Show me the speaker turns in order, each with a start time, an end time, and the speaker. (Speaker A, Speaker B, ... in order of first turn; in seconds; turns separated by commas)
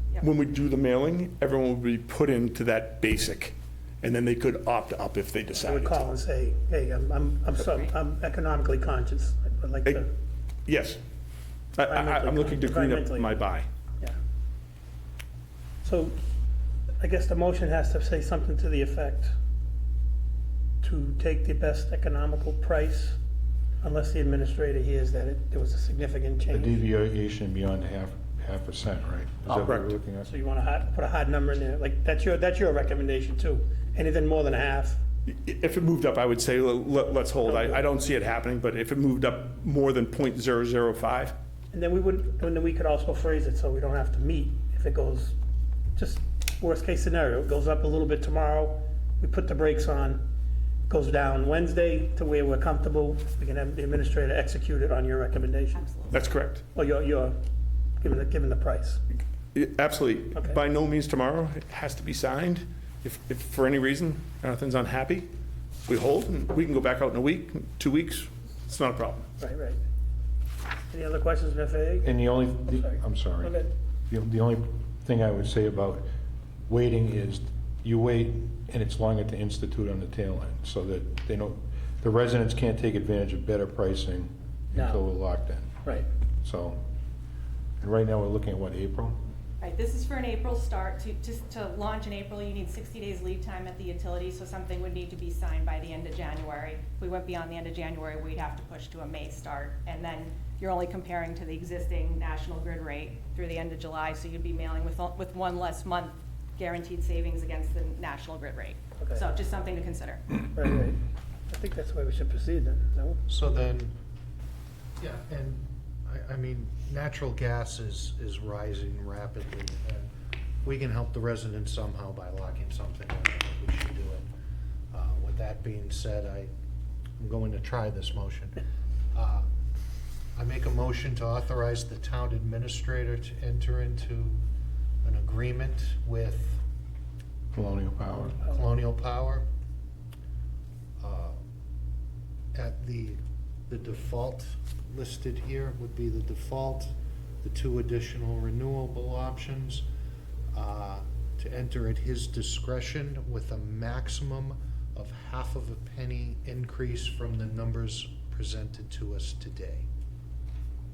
Speaker A: 0.2-6.1, Speaker B: 5.5-10.1, Speaker C: 7.6-7.9, Speaker A: 10.7-11.0, Speaker A: 11.8-13.7, Speaker B: 11.8-13.4, Speaker B: 15.8-16.2, Speaker B: 17.0-19.3, Speaker B: 20.8-23.2, Speaker B: 23.8-26.8, Speaker D: 26.5-30.3, Speaker A: 29.5-29.9, Speaker B: 30.3-35.0, Speaker A: 35.3-41.3, Speaker B: 37.4-37.8, Speaker B: 41.7-45.4, Speaker B: 46.0-50.2, Speaker B: 50.9-55.9, Speaker C: 55.8-56.2, Speaker A: 56.1-56.6, Speaker B: 56.8-57.4, Speaker B: 58.0-59.0, Speaker A: 59.5-65.3, Speaker B: 60.3-60.6, Speaker A: 65.9-69.3, Speaker B: 69.4-69.8, Speaker B: 70.9-73.7, Speaker D: 72.0-76.1, Speaker D: 76.7-85.7, Speaker B: 84.7-85.0, Speaker D: 86.4-86.8, Speaker D: 87.8-89.2, Speaker C: 89.6-110.2, Speaker B: 109.0-109.3, Speaker B: 110.5-111.0, Speaker B: 111.5-113.2, Speaker E: 113.3-113.9, Speaker E: 115.0-120.1, Speaker E: 120.6-124.3, Speaker E: 124.9-126.5, Speaker E: 127.2-128.6, Speaker E: 129.1-129.5, Speaker E: 130.4-134.4, Speaker E: 135.0-136.6, Speaker D: 137.5-138.4, Speaker E: 138.4-139.4, Speaker E: 141.0-141.4, Speaker E: 142.6-146.9, Speaker E: 147.4-149.8, Speaker E: 150.5-159.9